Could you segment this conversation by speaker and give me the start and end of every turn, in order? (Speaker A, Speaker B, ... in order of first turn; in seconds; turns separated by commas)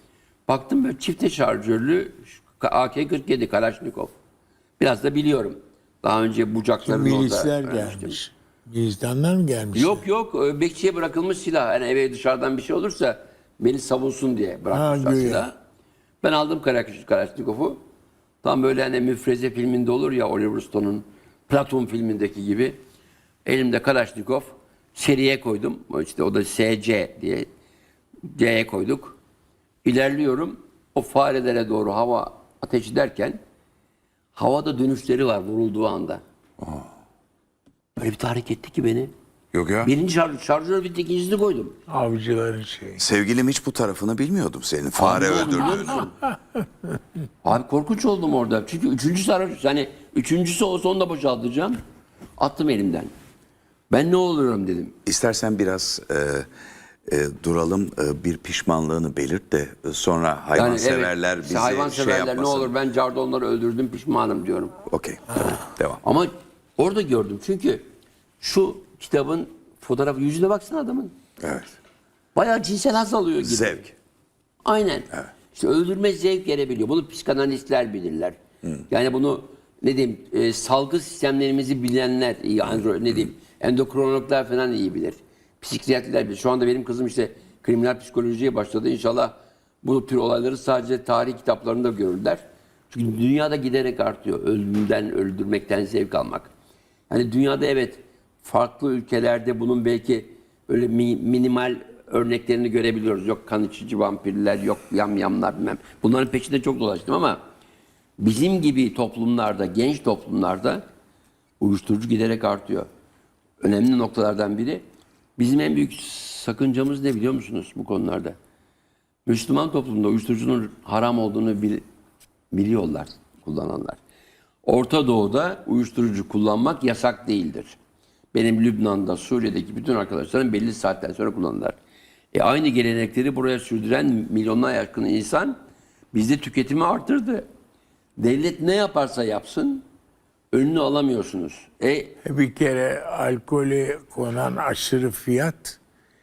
Speaker A: 0.5-4.1, Speaker A: 4.8-8.2, Speaker B: 6.8-10.0, Speaker A: 9.7-15.5, Speaker B: 14.7-15.5, Speaker A: 16.2-17.8, Speaker A: 18.4-22.8, Speaker A: 23.4-27.5, Speaker A: 28.3-29.2, Speaker A: 29.8-33.4, Speaker A: 34.3-36.2, Speaker C: 36.6-36.9, Speaker A: 38.0-39.1, Speaker C: 39.5-39.9, Speaker A: 39.8-41.8, Speaker B: 41.9-43.0, Speaker C: 43.0-46.1, Speaker A: 45.0-46.1, Speaker A: 47.4-51.8, Speaker A: 52.4-53.1, Speaker A: 53.9-54.9, Speaker C: 55.0-56.5, Speaker C: 57.1-62.7, Speaker A: 60.5-64.7, Speaker C: 64.8-66.0, Speaker A: 66.0-67.8, Speaker A: 68.4-71.1, Speaker C: 71.4-71.8, Speaker A: 72.3-73.9, Speaker C: 73.4-73.9, Speaker A: 74.6-78.4, Speaker A: 78.9-96.5, Speaker A: 97.1-107.4, Speaker A: 108.2-110.8, Speaker A: 111.6-112.9, Speaker A: 113.6-114.8, Speaker A: 115.4-118.4, Speaker A: 119.2-121.8, Speaker A: 122.5-124.0, Speaker A: 124.7-127.8, Speaker A: 128.3-131.8, Speaker A: 132.3-135.6, Speaker A: 136.1-137.4, Speaker A: 138.2-139.8, Speaker A: 140.5-142.1, Speaker B: 142.2-145.8